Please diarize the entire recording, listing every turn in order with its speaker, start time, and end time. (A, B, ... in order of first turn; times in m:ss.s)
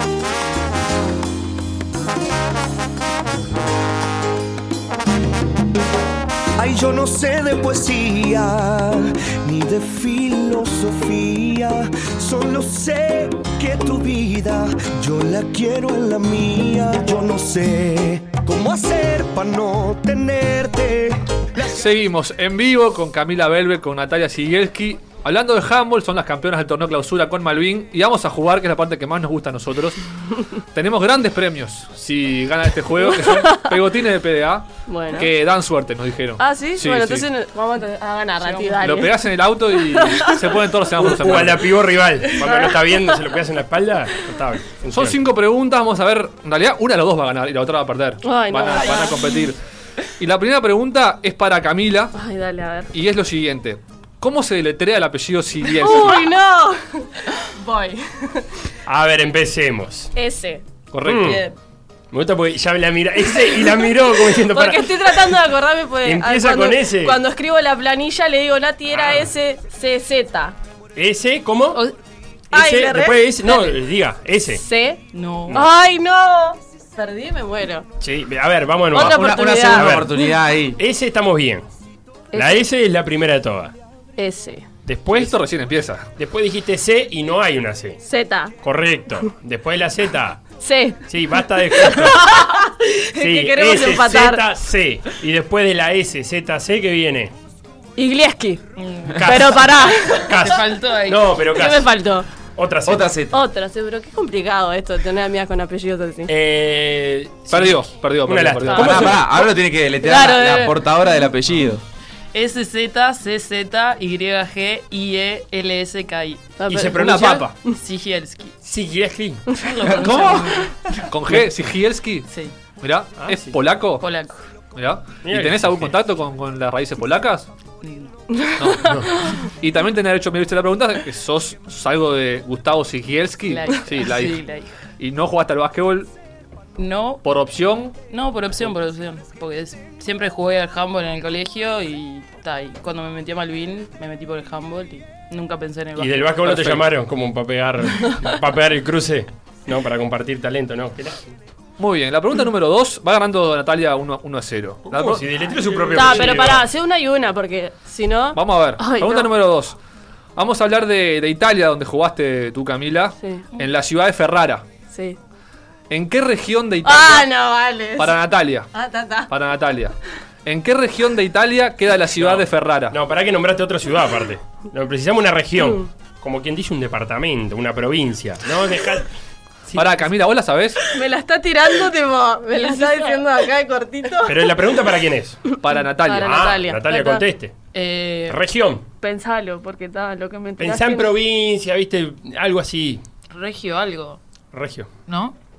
0:06.6-0:21.9 A
0:21.6-0:30.0 B
0:30.7-0:37.3 B
0:33.0-0:33.7 C
0:34.9-0:35.3 C
0:36.4-0:39.2 C
0:38.4-0:39.0 D
0:38.8-0:41.7 B
0:39.7-0:40.4 C
0:41.0-0:45.2 E
0:42.4-0:43.2 C
0:44.9-0:49.6 B
0:48.2-0:49.5 C
0:50.2-0:52.2 B
0:52.1-0:52.9 C
0:52.9-0:56.3 B
0:55.7-0:58.6 C
0:58.8-1:00.1 E
1:00.2-1:00.6 C
1:00.9-1:01.4 B
1:01.0-1:01.4 E
1:02.1-1:05.4 E
1:03.3-1:10.6 C
1:06.0-1:07.2 E
1:08.9-1:09.3 E
1:11.0-1:11.8 E
1:12.5-1:14.6 E
1:12.5-1:13.8 C
1:14.5-1:17.9 C
1:15.1-1:15.6 D
1:18.0-1:20.1 E
1:18.9-1:20.8 F
1:18.9-1:20.2 C
1:20.8-1:21.6 E
1:22.3-1:22.6 C
1:22.3-1:23.7 E
1:24.2-1:24.7 C
1:24.8-1:25.3 E
1:25.1-1:26.1 B
1:26.2-1:28.0 E
1:28.0-1:28.6 C
1:28.6-1:30.4 E
1:30.6-1:31.0 C
1:31.1-1:32.4 E
1:31.8-1:34.5 C
1:33.2-1:37.3 E
1:38.0-1:38.6 C
1:38.8-1:39.3 D
1:39.2-1:40.4 C
1:39.2-1:41.9 E
1:40.4-1:41.4 D
1:41.5-1:42.3 C
1:42.6-1:43.1 E
1:42.8-1:43.4 F
1:43.3-1:46.3 C
1:46.3-1:49.3 E
1:47.5-1:49.2 B
1:48.7-1:49.1 C
1:48.7-1:51.8 F
1:50.0-1:50.8 C
1:52.3-1:56.5 D
1:56.6-1:57.8 C
1:56.7-1:57.5 E
1:56.9-1:57.5 B
1:57.7-1:58.5 D
1:58.6-1:59.4 E
1:59.6-2:00.2 C
1:59.6-2:00.7 D
1:59.8-2:00.7 F
2:01.1-2:02.3 B
2:02.3-2:02.5 D
2:02.8-2:04.0 B
2:03.2-2:03.6 E
2:04.0-2:04.4 D
2:04.7-2:07.5 B
2:05.2-2:05.9 E
2:07.8-2:08.1 D
2:08.3-2:09.4 C
2:08.6-2:14.4 B
2:13.5-2:14.7 D
2:15.0-2:16.1 B
2:16.8-2:17.2 D
2:17.2-2:17.9 B
2:18.1-2:26.3 D
2:26.0-2:31.2 E
2:26.4-2:26.9 B
2:31.8-2:35.3 B
2:34.9-2:36.7 E
2:35.9-2:39.3 C
2:38.3-2:39.8 B
2:40.4-2:44.6 B
2:43.2-2:43.4 C
2:44.9-2:45.2 C
2:45.9-2:47.3 B
2:46.8-2:48.2 C
2:48.0-2:48.7 B
2:48.7-2:49.3 C
2:49.3-2:53.0 B
2:52.1-2:59.1 E
2:59.7-3:00.0 E
2:59.7-3:00.8 B
3:00.9-3:04.7 C
3:02.6-3:03.2 D
3:04.2-3:05.4 E
3:05.6-3:06.5 B
3:05.7-3:07.2 C
3:06.2-3:07.5 E
3:07.7-3:08.4 D
3:08.3-3:08.8 E
3:09.0-3:11.1 C
3:10.6-3:13.0 E
3:13.3-3:14.2 D
3:14.5-3:14.9 E
3:15.1-3:15.3 D